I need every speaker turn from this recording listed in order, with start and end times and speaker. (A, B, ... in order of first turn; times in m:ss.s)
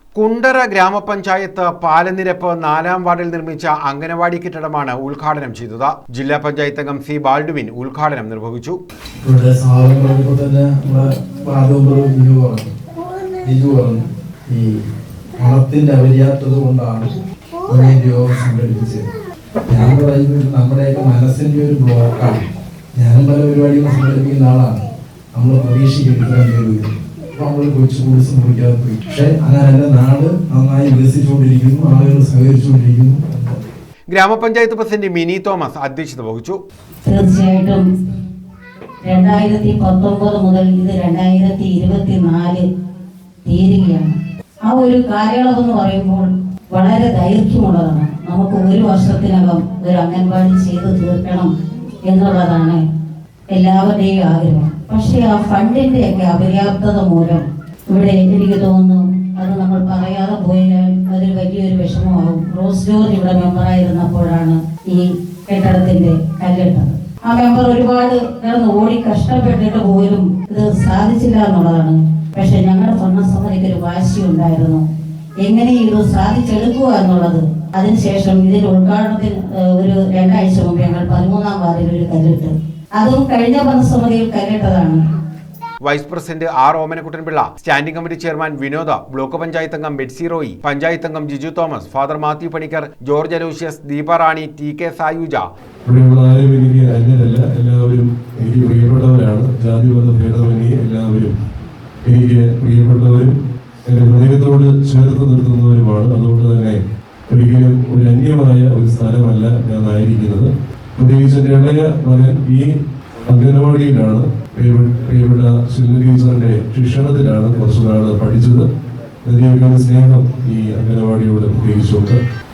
0:00.2-0:08.8 A
0:09.2-0:12.7 B
0:13.4-0:14.7 B
0:15.4-0:19.1 B
0:19.7-0:33.7 B
0:34.1-0:36.6 A
0:37.1-0:37.8 C
0:39.0-0:42.6 C
0:43.5-0:44.2 C
0:44.7-0:51.5 C
0:52.1-0:52.8 C
0:53.5-1:14.8 C
1:15.4-1:25.0 C
1:25.8-1:35.4 A
1:35.9-1:41.3 D
1:42.1-1:43.4 D
1:43.9-1:46.8 D
1:47.3-1:52.7 D
1:53.3-1:58.7 D
1:59.2-2:02.2 D